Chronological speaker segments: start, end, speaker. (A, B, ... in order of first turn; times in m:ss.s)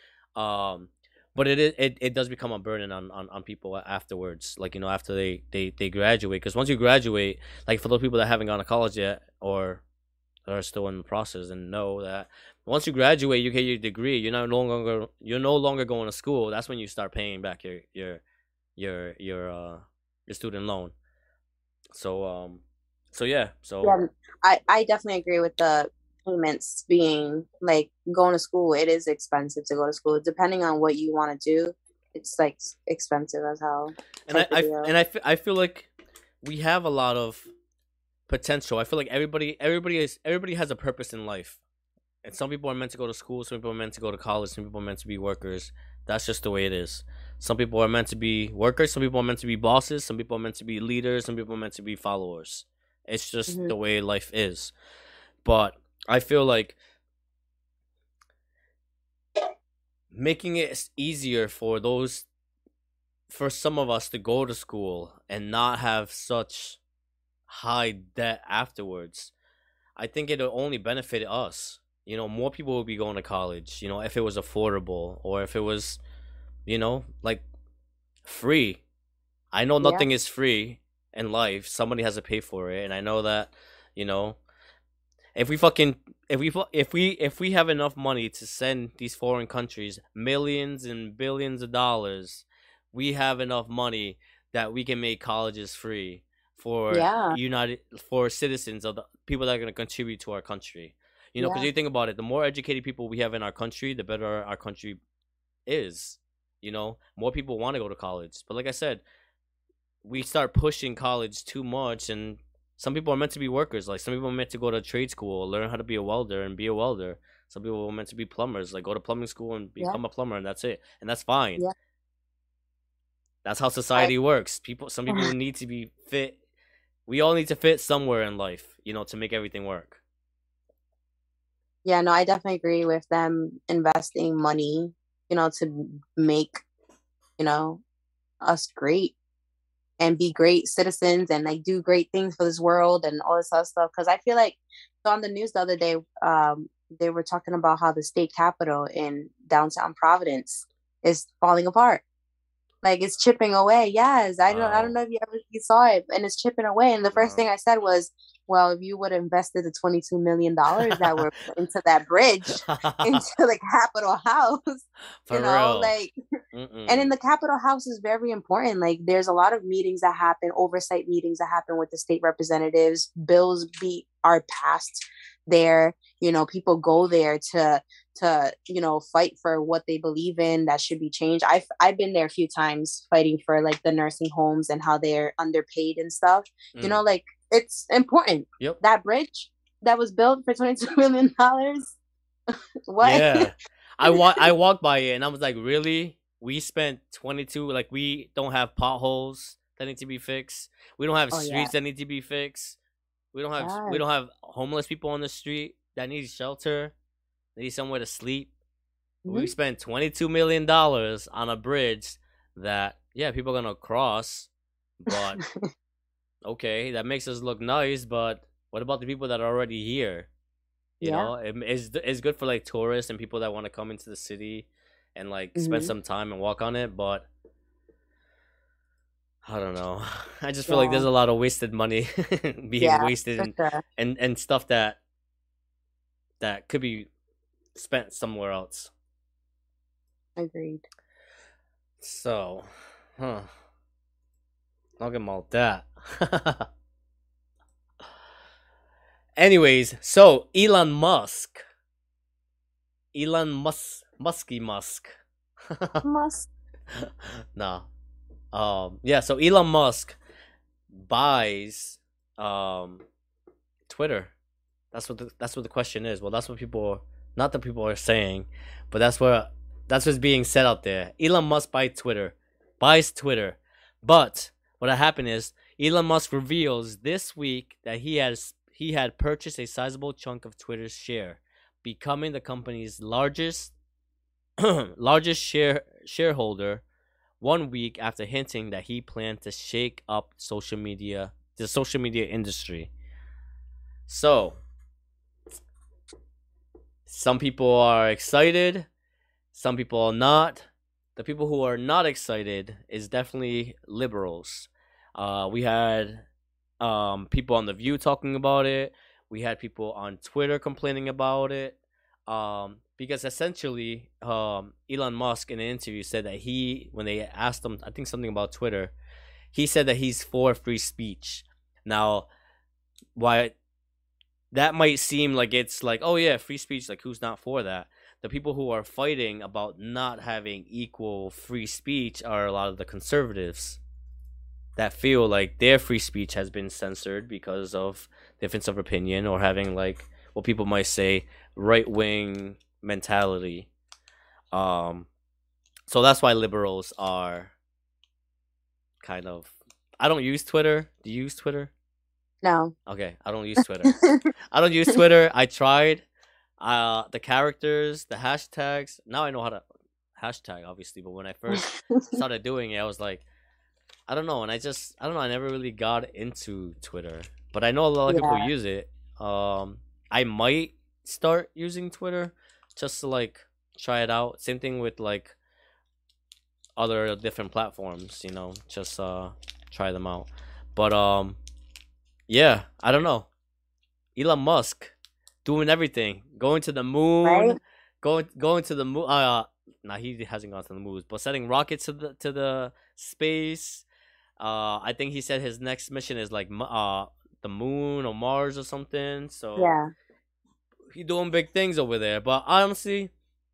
0:00.3-0:09.8 A
0:10.4-0:18.2 A
0:18.8-0:20.9 A
0:21.9-0:22.6 A
0:23.1-0:24.0 A
0:23.8-0:34.9 B
0:34.2-0:35.9 A
0:36.4-0:37.5 A
0:38.3-0:41.6 A
0:42.2-0:54.7 A
0:53.5-0:53.7 B
0:55.4-0:56.8 A
1:00.1-1:02.3 A
1:03.3-1:06.8 A
1:07.5-1:09.3 A
1:10.0-1:16.0 A
1:16.6-1:17.4 A
1:18.2-1:18.8 A
1:19.5-1:24.4 A
1:25.3-1:45.0 A
1:36.9-1:37.4 B
1:41.4-1:41.7 B
1:45.6-1:49.0 A
1:50.0-2:01.6 A
2:03.4-2:06.4 A
2:07.1-2:10.0 A
2:11.8-2:16.6 B
2:17.4-2:17.8 B
2:18.4-2:19.1 B
2:20.0-2:32.0 B
2:32.8-2:46.1 B
2:34.5-2:34.9 A
2:37.1-2:37.4 A
2:40.8-2:41.2 A
2:42.6-2:43.2 A
2:45.2-2:45.9 A
2:46.5-2:47.1 A
2:46.9-3:12.0 B
3:12.9-3:13.5 B
3:13.0-3:22.8 A
3:21.3-3:21.7 B
3:23.3-3:26.9 A
3:23.6-3:24.0 B
3:27.6-3:28.5 A
3:29.2-3:29.5 B
3:29.3-3:34.5 A
3:35.0-3:35.4 A
3:35.1-3:35.4 B
3:36.4-3:40.3 A
3:41.0-3:47.3 A
3:41.0-3:41.3 B
3:45.6-3:45.9 B
3:49.4-3:55.0 A
3:50.7-3:51.1 B
3:52.8-3:53.8 B
3:56.4-3:57.1 A
3:57.7-3:58.9 A
4:00.4-4:00.8 B
4:02.0-4:03.5 A
4:05.0-4:06.7 A
4:09.4-4:11.6 A
4:13.1-4:15.2 A
4:15.7-4:16.0 A
4:16.0-4:16.5 B
4:17.0-4:17.9 A
4:18.5-4:20.2 A
4:20.9-4:23.0 A
4:23.9-4:24.3 A
4:24.9-4:43.7 A
4:44.6-4:46.8 A
4:47.4-4:52.9 A
4:54.1-4:54.6 A
4:57.0-4:58.9 A
4:59.5-5:06.2 A
5:06.8-5:18.9 A
5:19.5-5:22.3 A
5:23.2-5:23.5 A
5:24.5-5:33.8 A
5:34.8-5:43.7 A
5:44.5-5:45.1 A
5:45.9-5:47.5 A
5:49.0-5:51.7 A
5:52.4-5:52.7 B
5:52.8-5:54.0 A
5:53.8-5:54.2 B
5:54.5-5:56.0 A
5:56.6-5:59.6 A
6:00.2-6:03.2 A
6:01.5-6:02.2 B
6:04.1-6:15.4 A
6:08.1-6:08.5 B
6:16.8-6:21.4 A
6:22.3-6:23.3 A
6:24.2-6:33.8 A
6:27.2-6:27.6 B
6:34.4-6:39.7 A
6:39.6-6:39.9 B
6:40.9-6:43.1 A